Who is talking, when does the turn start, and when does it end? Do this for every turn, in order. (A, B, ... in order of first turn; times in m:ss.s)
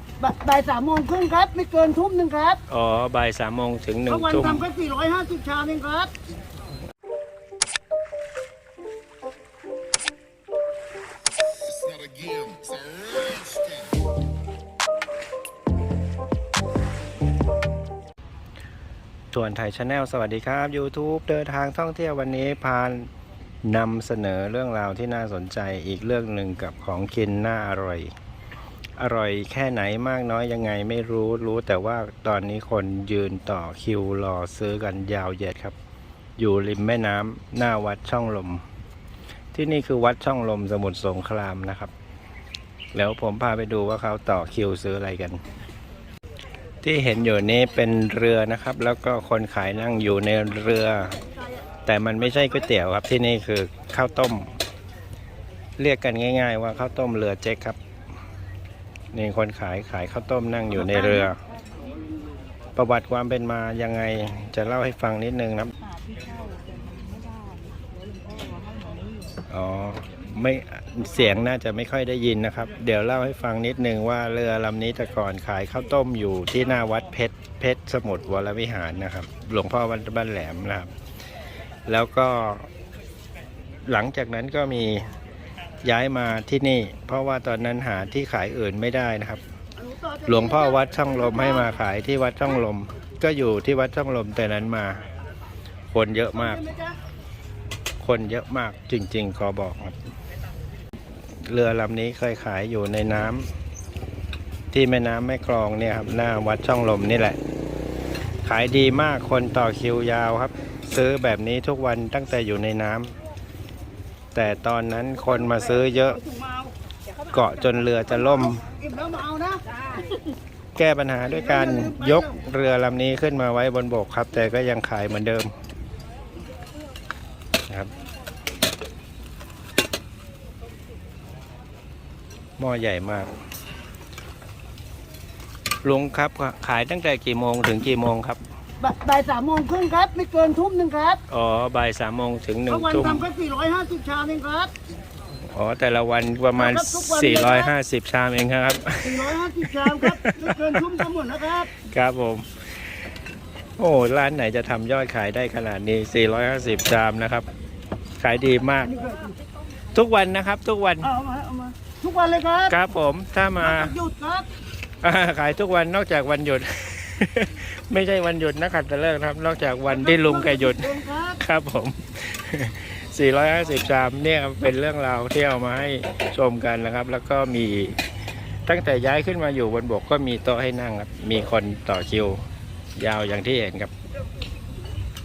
0:00.2-0:02.6 A
0:02.7-0:04.7 B
0:04.1-0:06.1 A
0:12.0-0:12.6 C
0:19.3-0:23.1 B
0:23.6-0:28.1 B
0:29.0-0:35.7 B
0:36.4-0:38.6 B
0:39.5-0:41.9 B
0:42.9-0:45.4 B
0:46.8-0:51.2 B
0:51.8-0:54.5 B
0:55.8-0:57.8 B
0:59.1-1:01.4 B
1:01.0-1:01.3 A
1:02.8-1:05.7 B
1:05.8-1:09.3 C
1:09.5-1:20.9 B
1:21.9-1:22.7 B
1:23.9-1:25.0 B
1:25.8-1:29.4 B
1:29.8-1:31.7 A
1:30.3-1:35.0 B
1:35.9-1:36.6 B
1:36.3-1:37.0 A
1:38.0-1:40.0 B
1:41.4-1:43.5 B
1:44.7-1:47.4 B
1:48.4-1:53.1 B
1:54.3-1:56.2 B
1:55.3-1:56.7 A
1:57.3-1:58.6 B
1:58.0-1:59.6 A
2:00.8-2:05.5 B
2:01.2-2:02.4 A
2:12.6-2:13.3 B
2:15.8-2:18.4 B
2:18.8-2:21.2 A
2:21.3-2:23.3 B
2:22.7-2:24.7 A
2:25.5-2:31.0 B
2:26.6-2:27.7 A
2:29.0-2:31.7 A
2:31.8-2:32.6 B
2:33.8-2:37.5 B
2:38.2-2:38.9 B
2:38.8-2:39.3 A
2:39.9-2:41.1 B
2:41.0-2:42.7 A
2:42.7-2:43.9 B
2:43.6-2:44.5 A
2:45.0-2:58.0 B
2:49.9-2:51.4 A
2:58.6-3:02.4 B
3:03.0-3:03.9 B